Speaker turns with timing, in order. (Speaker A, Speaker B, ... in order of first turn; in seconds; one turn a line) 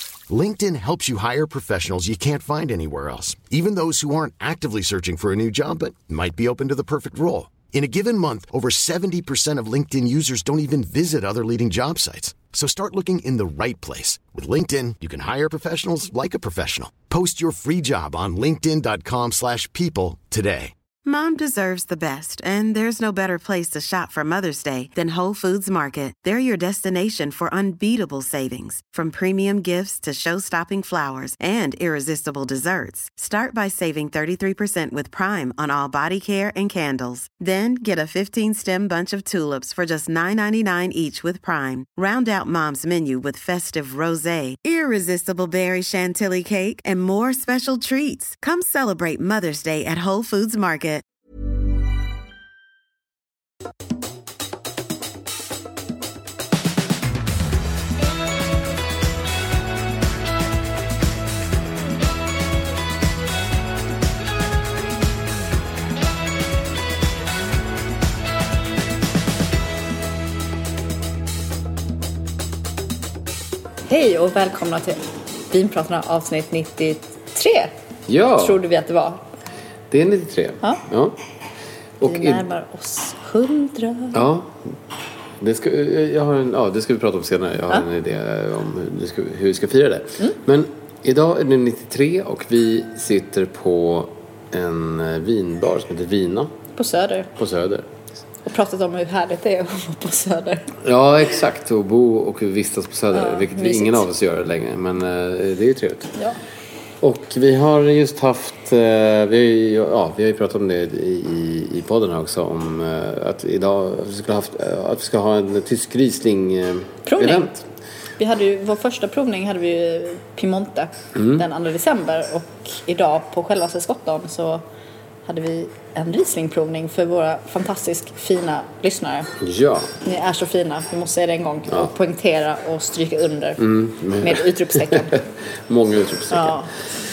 Speaker A: 0.3-20.7
Speaker B: 21.0-51.0
Speaker C: 73.9-77.7
Speaker D: 78.1-78.6
Speaker C: 78.4-79.2
Speaker D: 79.9-81.2
Speaker D: 82.0-82.4
Speaker C: 82.0-84.2
Speaker D: 84.1-84.6
Speaker D: 85.4-96.5
Speaker C: 96.7-97.3
Speaker D: 97.4-97.9
Speaker C: 98.4-100.7
Speaker D: 100.8-106.1
Speaker C: 103.1-104.1
Speaker D: 107.0-117.6
Speaker C: 117.0-117.5
Speaker C: 118.2-124.6
Speaker D: 121.2-121.4
Speaker C: 125.2-129.3
Speaker D: 129.4-129.9
Speaker C: 130.0-133.6
Speaker D: 133.6-135.1
Speaker C: 134.2-135.2
Speaker D: 135.7-136.6
Speaker C: 136.3-136.7